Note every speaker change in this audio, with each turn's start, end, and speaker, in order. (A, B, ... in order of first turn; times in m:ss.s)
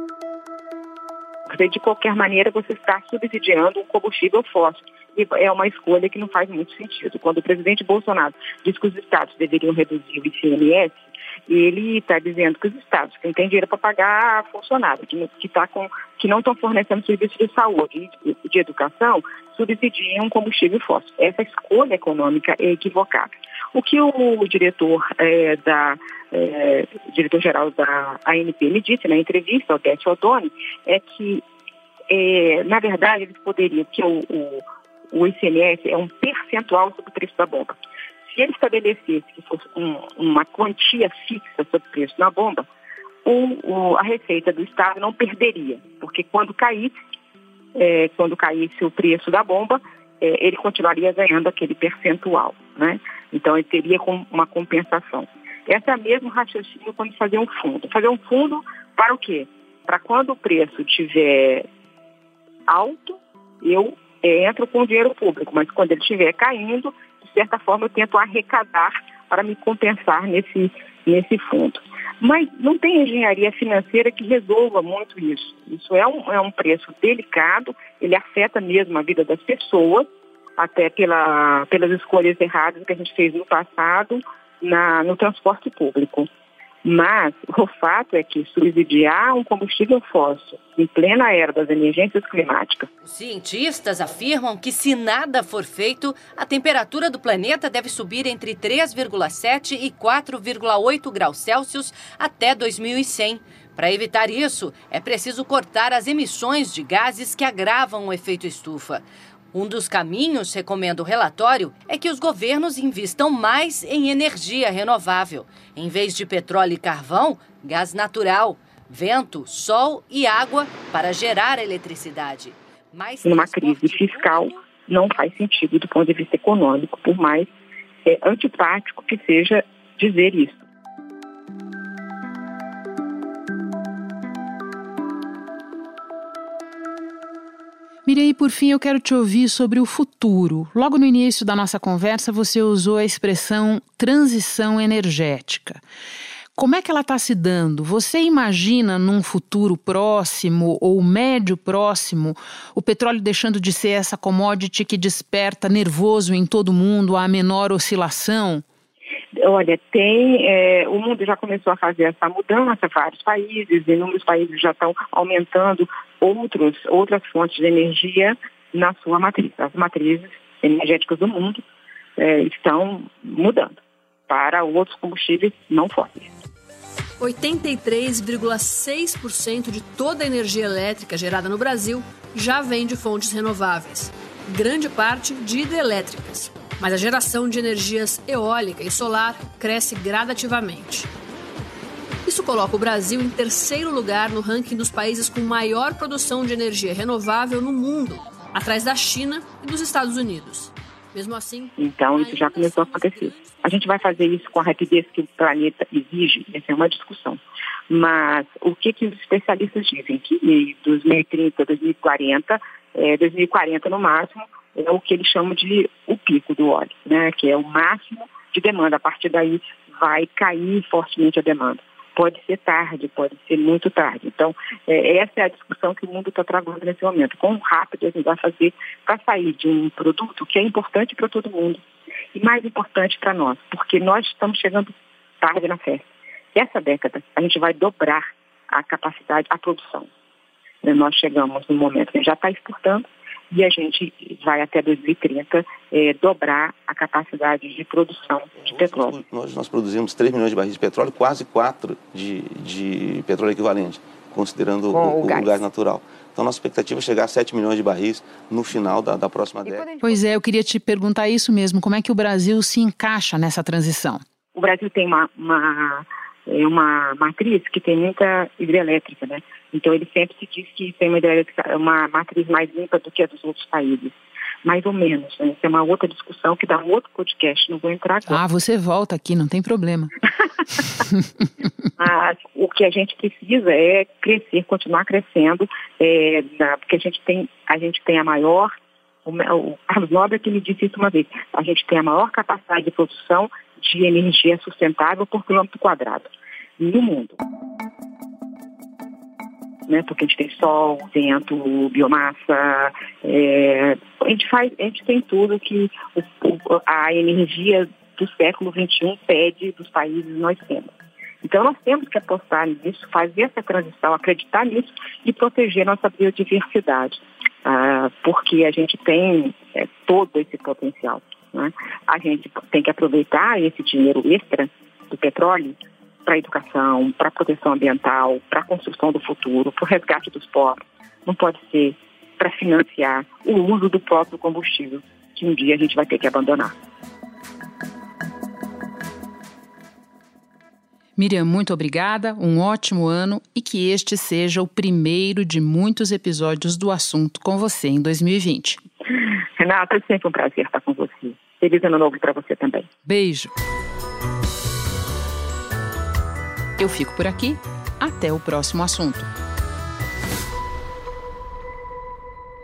0:01.5-0:31.4 A
0:32.1-0:37.8 A
0:38.3-0:42.7 A
0:43.2-0:46.9 A
0:47.8-1:01.7 A
1:02.7-1:20.1 A
1:20.6-1:26.3 A
1:26.8-1:32.9 A
1:33.0-2:04.6 B
2:03.2-2:07.5 A
2:08.0-2:10.6 A
2:18.1-2:25.8 C
2:26.6-2:38.6 C
2:39.4-2:51.6 A
2:52.2-2:53.7 A
2:54.3-2:56.3 A
2:57.2-3:11.1 D
3:12.3-3:24.4 D
3:21.8-3:51.8 A
3:52.4-3:54.9 A
3:55.4-4:00.1 A
4:00.8-4:09.2 A
4:08.6-4:19.9 E
4:15.0-4:15.5 C
4:20.0-4:24.2 C
4:24.6-4:38.4 A
4:38.3-4:40.1 C
4:42.0-4:48.7 A
4:49.2-4:57.4 A
4:59.9-5:36.7 A
5:41.2-5:48.8 C
5:49.6-5:52.9 A
5:53.1-5:53.5 C
5:56.8-5:59.3 C